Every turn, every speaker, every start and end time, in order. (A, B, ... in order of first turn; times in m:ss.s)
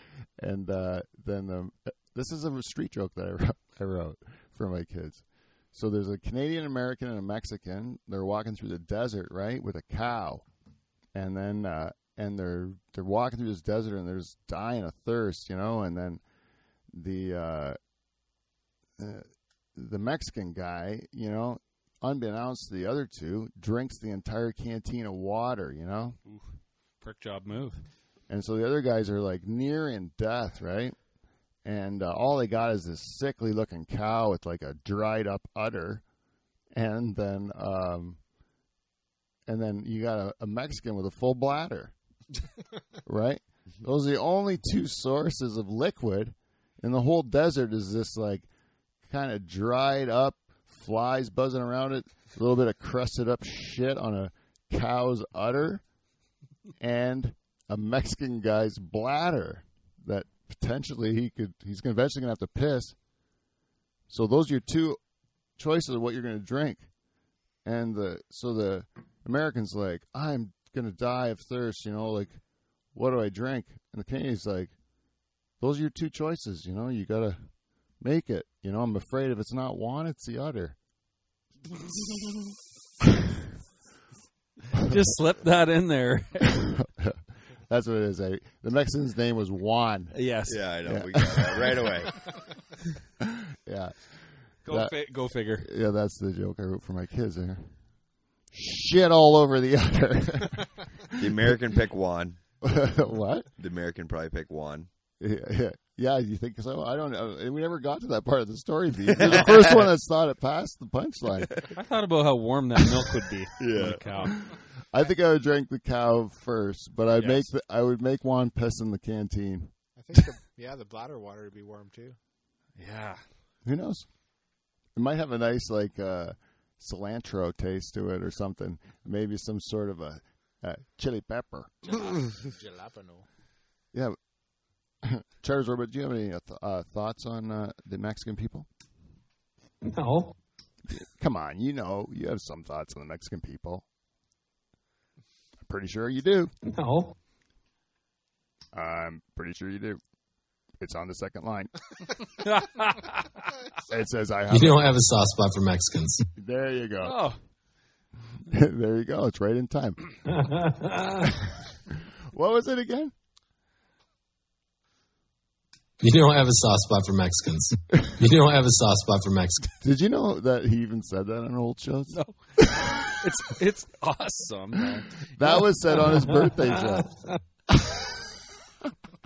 0:00.4-0:10.4 A
0:11.1-0:16.2 A
0:16.9-0:17.8 A
0:19.0-0:26.2 A
0:27.0-0:27.8 B
0:28.3-0:31.0 A
0:31.6-0:36.0 A
0:36.7-0:38.2 A
0:39.5-0:41.9 A
0:43.0-0:48.5 A
0:49.0-0:55.8 A
0:56.8-1:02.9 A
1:04.1-1:05.0 A
1:05.6-1:06.9 A
1:07.6-1:12.4 A
1:12.9-1:14.7 A
1:15.6-1:17.4 A
1:18.0-1:20.8 A
1:24.7-1:26.8 B
1:26.5-1:30.1 A
1:30.1-1:30.6 B
1:30.5-1:32.4 C
1:30.8-1:31.9 A
1:33.2-1:34.0 A
1:34.6-1:35.7 B
1:34.7-1:35.0 A
1:35.6-1:37.7 A
1:38.5-1:41.5 A
1:41.2-1:42.4 C
1:42.6-1:43.5 A
1:43.6-1:44.9 C
1:45.2-1:51.7 A
1:49.1-1:49.9 C
1:51.7-1:54.4 B
1:53.6-1:54.3 C
1:54.2-1:59.7 A
1:57.1-1:57.5 B
2:00.0-2:02.2 D
2:02.8-2:03.2 B
2:03.6-2:04.1 A
2:05.0-2:12.0 A
2:11.8-2:13.2 D
2:15.0-2:18.7 A
2:19.8-2:20.3 E
2:20.9-2:23.8 A
2:25.7-2:26.5 A
2:26.6-2:27.1 E
2:28.7-2:30.0 A
2:30.8-2:31.7 A
2:32.4-2:33.4 B
2:33.9-2:34.9 A
2:34.5-2:36.3 E
2:36.4-2:37.2 A
2:37.0-2:37.4 B
2:38.5-2:40.0 A
2:40.2-2:41.3 E
2:42.3-2:43.1 A
2:46.0-2:49.7 E
2:49.8-2:53.0 A
2:52.1-2:55.6 B
2:55.3-2:57.1 A
2:56.6-2:57.3 E
2:57.7-2:58.2 A